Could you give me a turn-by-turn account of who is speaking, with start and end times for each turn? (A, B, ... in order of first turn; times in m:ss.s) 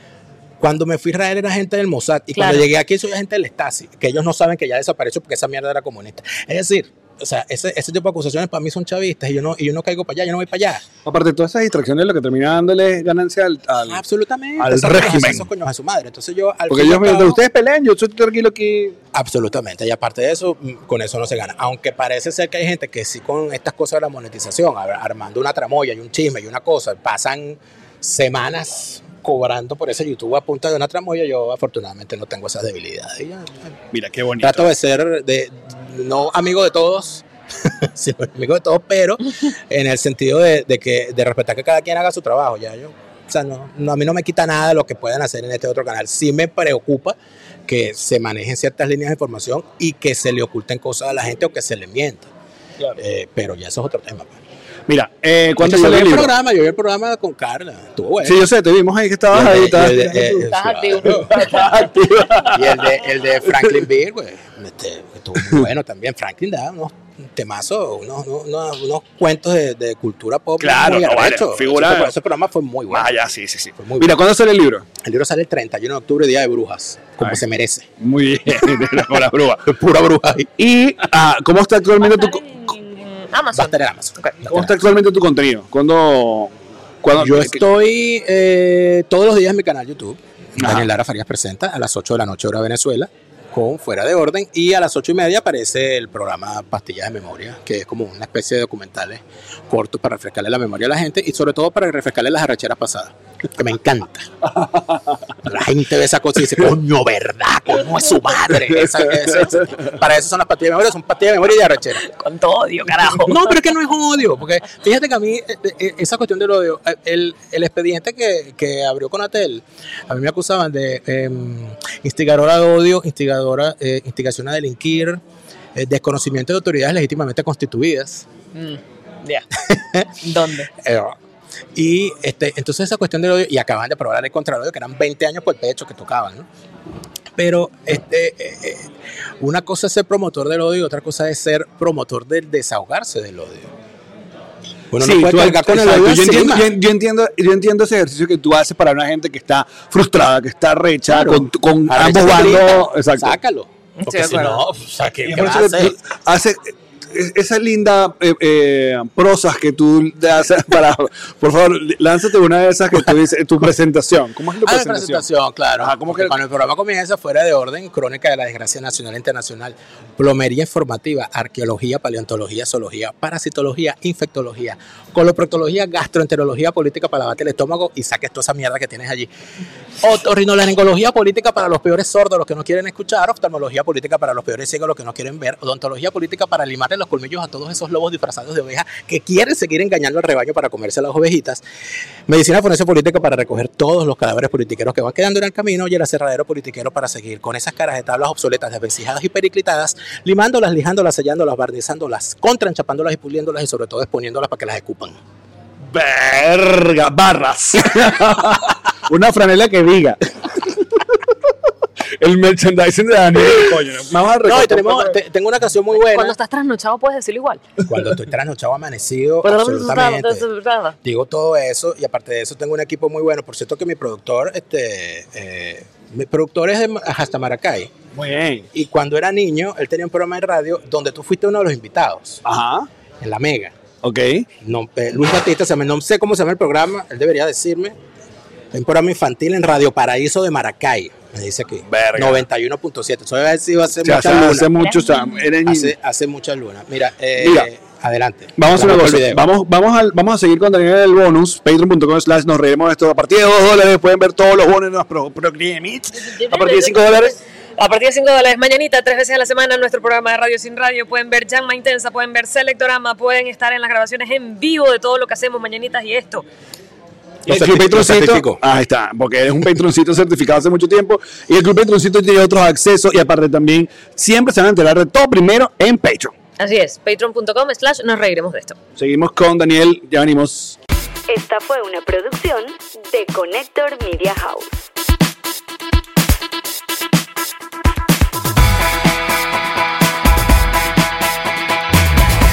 0:00.6-0:10.8 A
0:02.3-0:02.7 B
0:11.0-0:14.0 C
0:13.9-0:17.4 A
0:14.6-0:15.5 C
0:16.7-0:19.0 C
0:19.1-0:33.7 A
0:33.9-0:34.7 C
0:34.4-0:47.1 A
0:47.7-0:52.3 A
0:53.0-0:54.3 A
0:54.9-0:56.3 C
0:55.6-0:58.4 A
0:58.2-1:02.9 C
0:59.3-1:01.4 A
1:00.4-1:01.9 B
1:02.4-1:13.1 A
1:03.5-1:03.8 C
1:10.6-1:12.1 C
1:12.9-1:14.9 C
1:13.8-1:14.1 A
1:15.0-1:17.9 A
1:18.0-1:19.8 C
1:19.6-1:20.5 A
1:20.6-1:22.4 C
1:22.0-1:24.3 B
1:23.5-1:24.7 A
1:24.4-1:26.5 C
1:27.0-1:27.6 C
1:27.2-1:44.3 A
1:30.6-1:30.9 C
1:44.4-1:45.4 C
1:45.4-1:52.0 A
1:48.6-1:49.8 C
1:52.0-1:53.6 B
1:53.3-2:05.2 A
2:05.8-2:08.2 A
2:08.5-2:09.4 B
2:09.6-2:10.1 A
2:10.2-2:10.7 B
2:10.8-2:11.2 A
2:11.8-2:16.4 A
2:17.4-2:18.8 A
2:19.4-2:23.7 A
2:24.9-2:26.7 A
2:25.0-2:33.4 C
2:31.1-2:35.9 A
2:34.0-2:34.6 B
2:35.2-2:45.2 C
2:44.6-2:59.3 A
2:45.8-2:46.4 C
3:00.0-3:11.6 A
3:12.3-3:25.2 A
3:25.9-3:31.1 C
3:32.2-3:35.2 C
3:34.4-3:36.4 A
3:35.9-3:37.6 B
3:37.8-3:40.4 A
3:39.4-3:41.0 B
3:41.0-3:47.9 A
3:48.1-3:48.7 C
3:48.7-3:52.4 A
3:52.4-3:52.9 C
3:53.2-3:53.7 A
3:54.0-3:54.5 C
3:54.6-3:57.9 A
3:58.7-4:04.7 A
4:01.9-4:02.4 C
4:04.0-4:05.9 C
4:04.8-4:05.4 B
4:05.6-4:09.4 A
4:07.4-4:07.7 C
4:08.6-4:17.3 C
4:16.4-4:26.4 B
4:27.4-4:36.3 C
4:27.5-4:28.6 A
4:36.6-4:38.8 B
4:39.0-4:40.8 C
4:41.3-4:44.8 D